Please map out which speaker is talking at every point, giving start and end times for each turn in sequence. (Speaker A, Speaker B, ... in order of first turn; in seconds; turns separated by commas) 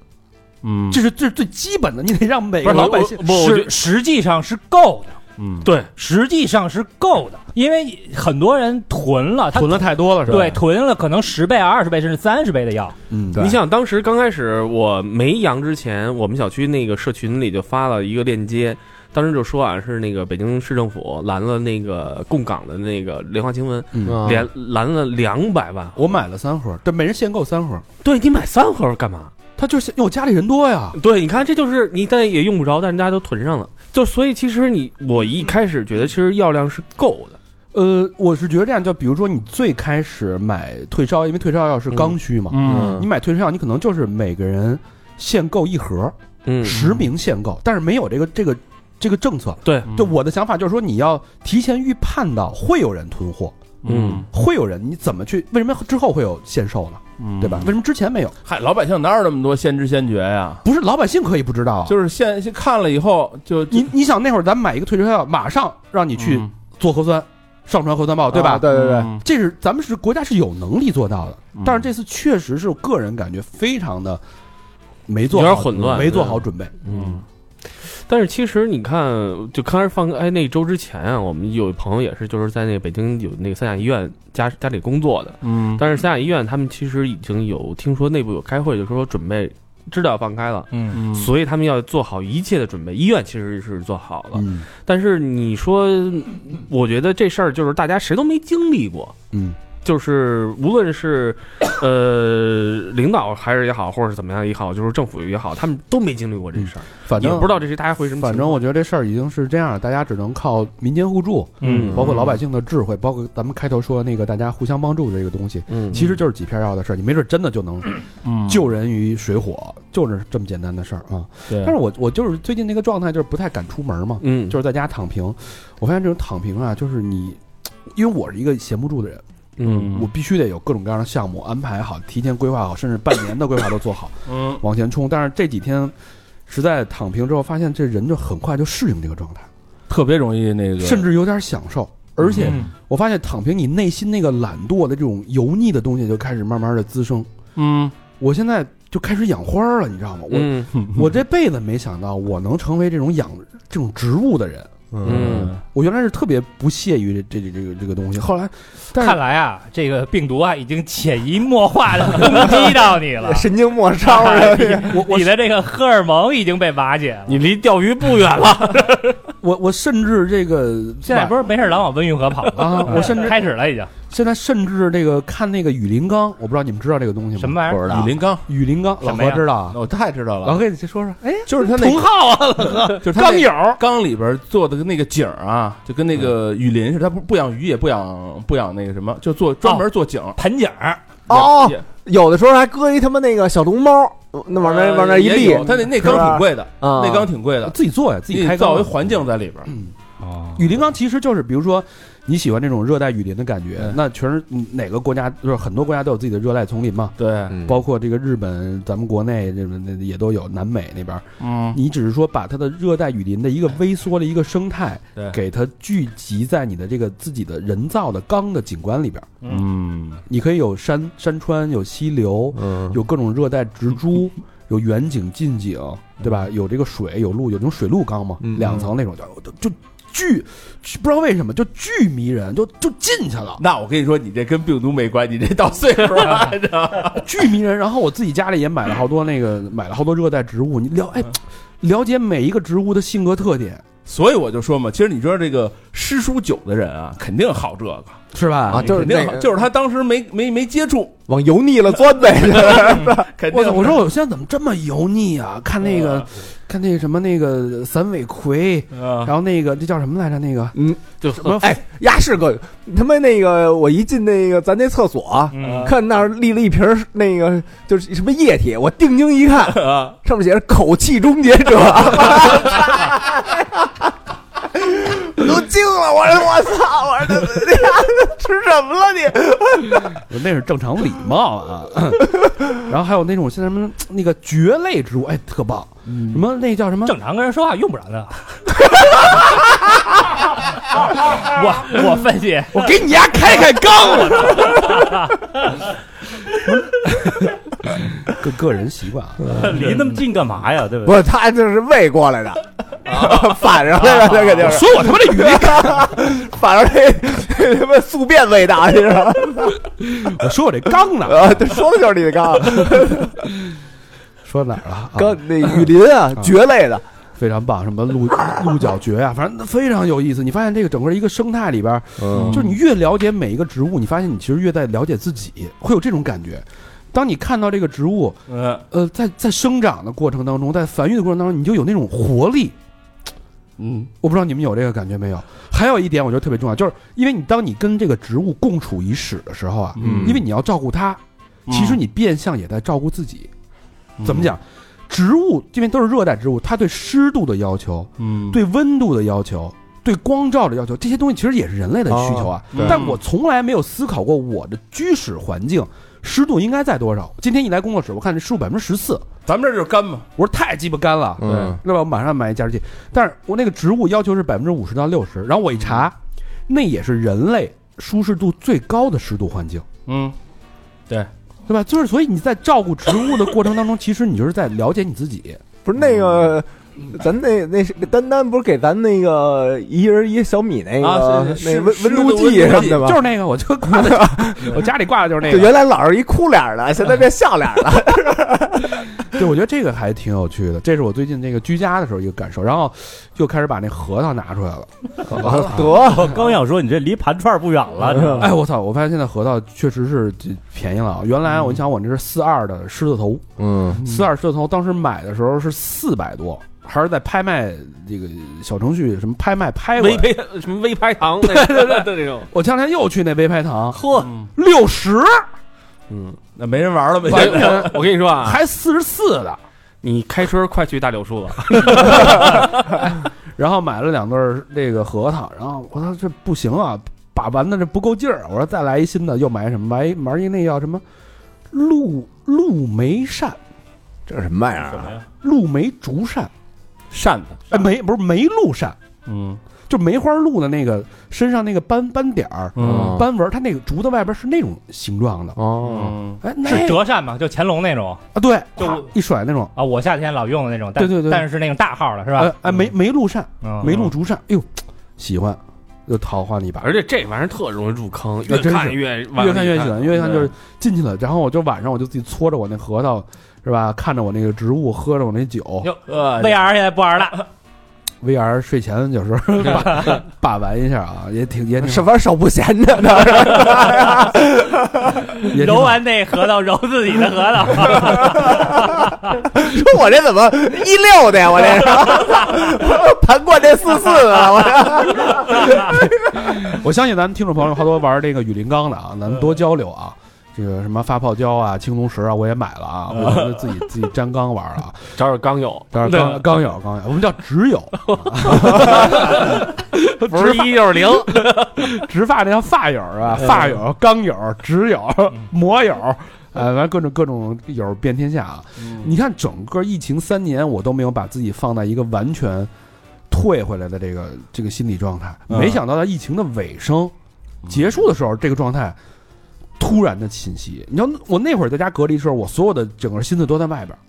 Speaker A: 0.6-1.0, Speaker B: 0.9-3.3, Speaker C: 2.6-5.2, Speaker D: 2.7-3.7, Speaker A: 5.4-5.7, Speaker D: 5.7-5.9, Speaker C: 6.0-12.9, Speaker B: 9.5-10.6, Speaker B: 13.1-13.5, Speaker D: 13.4-26.0, Speaker B: 23.9-24.3, Speaker E: 24.1-24.5, Speaker B: 26.0-27.9, Speaker D: 28.0-29.3, Speaker B: 29.6-31.0, Speaker D: 30.9-37.4, Speaker B: 37.7-53.6, Speaker A: 42.5-43.0, Speaker E: 42.7-43.0, Speaker D: 46.5-46.9, Speaker D: 49.6-49.9, Speaker A: 53.8-54.3, Speaker D: 53.9-54.3, Speaker B: 54.3-58.4, Speaker A: 57.2-57.7, Speaker A: 58.5-60.6, Speaker B: 60.6-62.0, Speaker A: 61.9-63.9, Speaker B: 63.7-74.2, Speaker A: 66.2-66.5, Speaker E: 68.3-69.2, Speaker A: 68.7-69.2, Speaker A: 71.6-71.9, Speaker B: 75.1-76.8, Speaker D: 75.3-99.2, Speaker A: 76.9-77.2, Speaker A: 85.4-85.8, Speaker A: 90.9-91.3, Speaker B: 94.3-94.7, Speaker B: 99.3-99.6, Speaker D: 99.8-108.6, Speaker B: 106.6-135.9, Speaker D: 111.6-112.0, Speaker A: 111.6-112.4, Speaker D: 115.7-116.0, Speaker A: 118.2-118.6, Speaker D: 124.2-124.6, Speaker D: 129.6-130.0, Speaker A: 129.7-130.1, Speaker A: 134.3-134.6, Speaker B: 136.5-139.5, Speaker A: 139.9-141.1, Speaker B: 140.8-147.3, Speaker A: 142.2-142.7, Speaker A: 147.6-147.9, Speaker B: 148.1-159.2, Speaker D: 150.3-150.7, Speaker A: 150.8-151.1, Speaker E: 154.9-155.3, Speaker D: 155.1-155.6, Speaker A: 155.1-155.6, Speaker C: 158.9-163.5, Speaker E: 162.2-165.0, Speaker C: 164.0-167.4, Speaker B: 164.9-165.4, Speaker D: 167.3-169.2, Speaker B: 169.4-171.4, Speaker C: 171.0-173.9, Speaker B: 172.6-173.4, Speaker B: 174.1-179.8, Speaker C: 177.4-177.8, Speaker E: 177.7-178.2, Speaker A: 177.9-178.4, Speaker C: 179.0-179.4, Speaker A: 179.7-180.6, Speaker B: 180.4-183.8, Speaker A: 181.5-190.4, Speaker C: 189.6-191.0, Speaker E: 191.3-197.3, Speaker A: 191.3-191.8, Speaker A: 194.5-197.8, Speaker B: 197.6-198.9, Speaker A: 198.3-199.7, Speaker C: 200.2-200.6, Speaker B: 200.6-219.3, Speaker A: 207.2-207.6, Speaker E: 207.5-207.8, Speaker A: 211.4-211.8, Speaker A: 219.4-220.2, Speaker B: 220.3-233.6, Speaker E: 222.6-223.0, Speaker E: 228.4-228.9, Speaker A: 233.6-237.3, Speaker B: 237.2-243.8, Speaker A: 244.1-251.2, Speaker B: 248.3-249.1, Speaker E: 248.7-249.6, Speaker E: 251.3-253.3, Speaker A: 252.5-254.0, Speaker B: 253.5-260.8, Speaker A: 256.0-256.2, Speaker A: 259.0-259.3, Speaker E: 260.7-273.9, Speaker D: 261.2-261.6, Speaker B: 261.3-261.6, Speaker C: 265.5-265.9, Speaker A: 265.6-265.9, Speaker A: 269.7-270.1, Speaker E: 274.8-280.0, Speaker B: 280.1-287.2, Speaker C: 287.0-288.4, Speaker C: 291.3-292.8, Speaker B: 292.7-295.1, Speaker B: 296.7-299.6, Speaker E: 299.4-299.9, Speaker F: 299.5-301.2, Speaker E: 301.1-309.9, Speaker A: 303.1-303.5, Speaker B: 304.5-306.1, Speaker B: 310.1-311.8, Speaker E: 311.2-313.4, Speaker B: 314.4-316.5, Speaker E: 315.1-317.0, Speaker B: 317.4-332.8, Speaker E: 322.2-322.6, Speaker A: 322.3-322.7, Speaker A: 328.5-328.8, Speaker A: 333.8-334.1, Speaker B: 334.2-343.5, Speaker A: 340.0-340.4, Speaker E: 340.0-340.4, Speaker A: 341.7-342.0, Speaker A: 344.2-344.5, Speaker B: 344.2-359.3, Speaker A: 348.2-348.6, Speaker E: 352.1-353.0, Speaker A: 352.7-353.2, Speaker A: 359.5-360.3, Speaker B: 360.4-366.2, Speaker E: 361.4-361.8, Speaker B: 366.7-369.9, Speaker A: 370.1-370.4, Speaker B: 371.7-375.6, Speaker E: 375.9-383.2, Speaker A: 381.0-383.1, Speaker B: 382.5-385.8, Speaker E: 383.9-384.8, Speaker E: 385.4-388.9, Speaker B: 389.3-396.3, Speaker E: 395.3-396.4, Speaker F: 395.8-398.5, Speaker E: 398.1-398.5, Speaker B: 398.4-403.5, Speaker E: 403.6-404.0, Speaker B: 404.0-410.3, Speaker D: 410.0-412.5, Speaker B: 411.4-415.5, Speaker D: 413.9-414.3, Speaker A: 414.2-414.5, Speaker D: 416.1-416.4, Speaker A: 416.6-418.0, Speaker D: 417.2-418.6, Speaker B: 417.3-419.6, Speaker D: 420.0-422.7, Speaker B: 421.9-423.0, Speaker B: 423.6-431.0, Speaker B: 431.7-433.6, Speaker E: 434.3-435.2, Speaker F: 434.9-435.2, Speaker B: 435.4-436.5, Speaker A: 437.1-437.6, Speaker B: 437.7-439.0, Speaker A: 439.3-439.6, Speaker B: 439.9-445.6, Speaker A: 442.8-443.1, Speaker E: 442.8-443.3, Speaker E: 445.6-446.1, Speaker A: 445.8-446.4, Speaker B: 446.4-447.0, Speaker C: 446.6-448.2, Speaker B: 448.3-449.7, Speaker C: 448.8-449.1, Speaker C: 449.8-452.5, Speaker B: 451.0-451.5, Speaker B: 452.4-457.0, Speaker C: 453.6-454.1, Speaker D: 456.8-460.5, Speaker B: 458.5-465.9, Speaker D: 466.1-466.4, Speaker A: 466.2-466.5, Speaker C: 466.2-467.4, Speaker B: 468.2-472.1, Speaker E: 471.8-475.3, Speaker B: 475.5-476.0, Speaker C: 475.5-479.0, Speaker E: 478.2-478.7, Speaker E: 479.5-486.0, Speaker B: 485.5-495.2, Speaker A: 493.1-493.6, Speaker D: 495.2-496.4, Speaker B: 495.9-499.6, Speaker D: 498.1-501.9, Speaker B: 500.2-501.2, Speaker B: 501.8-512.7, Speaker A: 508.8-509.1, Speaker B: 513.3-517.1, Speaker A: 515.5-515.8, Speaker B: 517.7-519.0, Speaker B: 519.8-524.0